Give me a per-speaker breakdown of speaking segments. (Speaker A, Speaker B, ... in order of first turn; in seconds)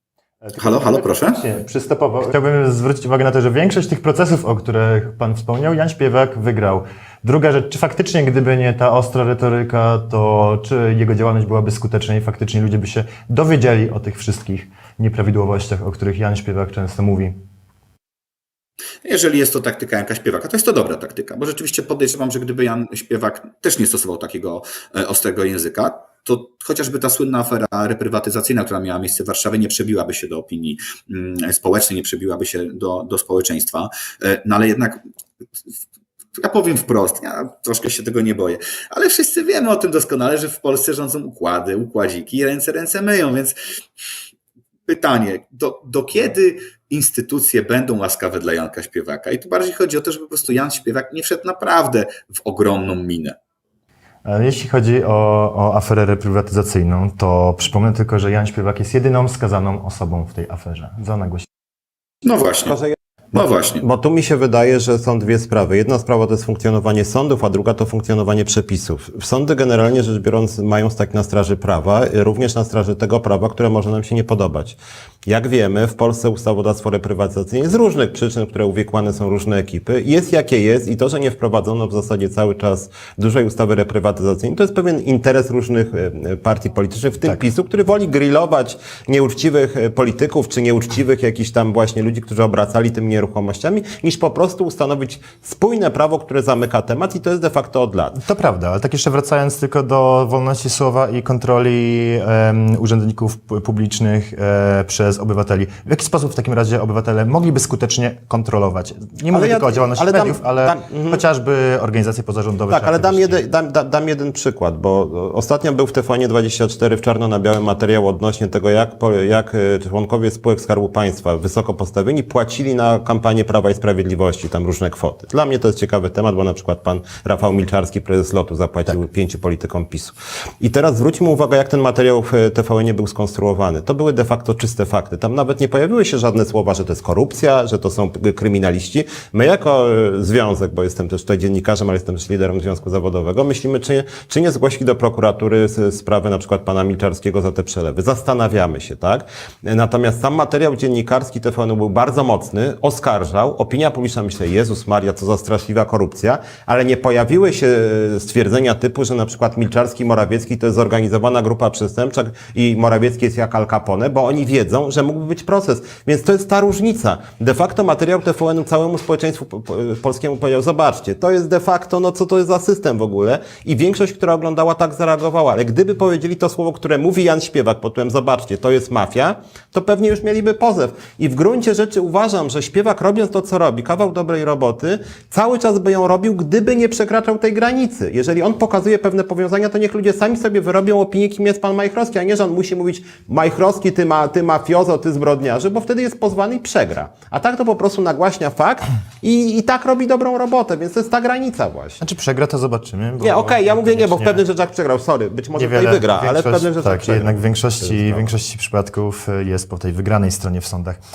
Speaker A: 0.4-17.4, 54.2-61.5, 98.2-113.4, 202.0-204.4, 205.6-211.0
Speaker B: 0.6-1.4, 19.1-35.0, 36.4-43.5, 44.9-53.4, 62.2-62.8, 63.3-63.8
Speaker C: 62.6-98.2, 109.3-111.2, 112.7-202.0, 203.2-208.3